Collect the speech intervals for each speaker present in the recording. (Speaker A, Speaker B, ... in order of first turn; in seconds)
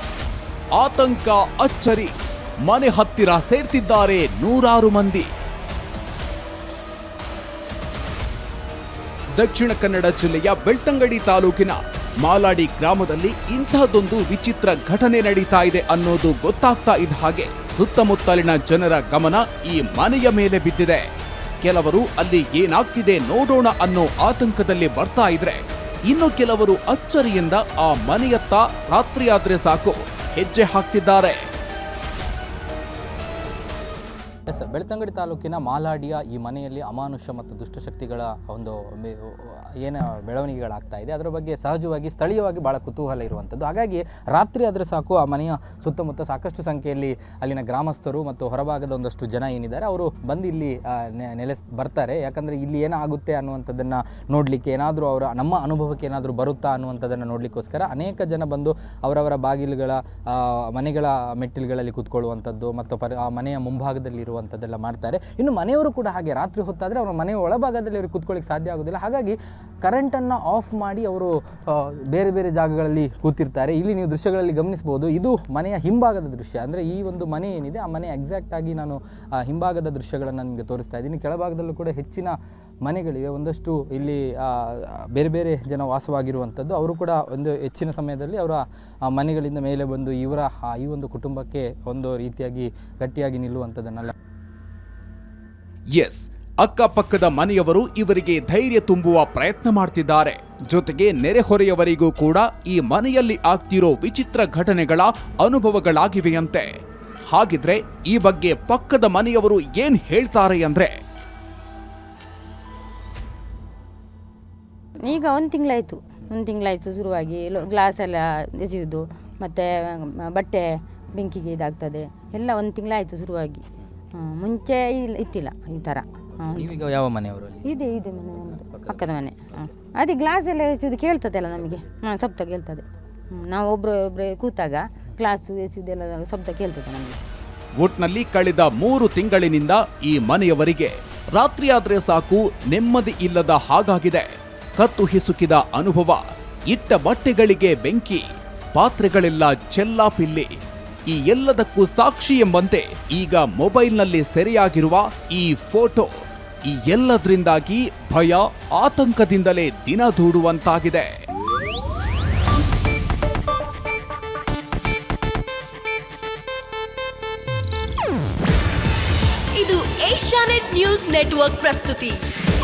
Speaker A: 0.8-2.1, 2.7-5.3, 9.3-21.0, 21.6-31.4, 96.0-106.7, 107.3-110.9, 137.8-150.5, 151.1-156.1, 156.6-161.1
Speaker B: 34.5-94.1, 126.5-127.7
Speaker C: 115.0-123.6, 124.1-126.7, 127.6-137.2
Speaker D: 169.5-172.2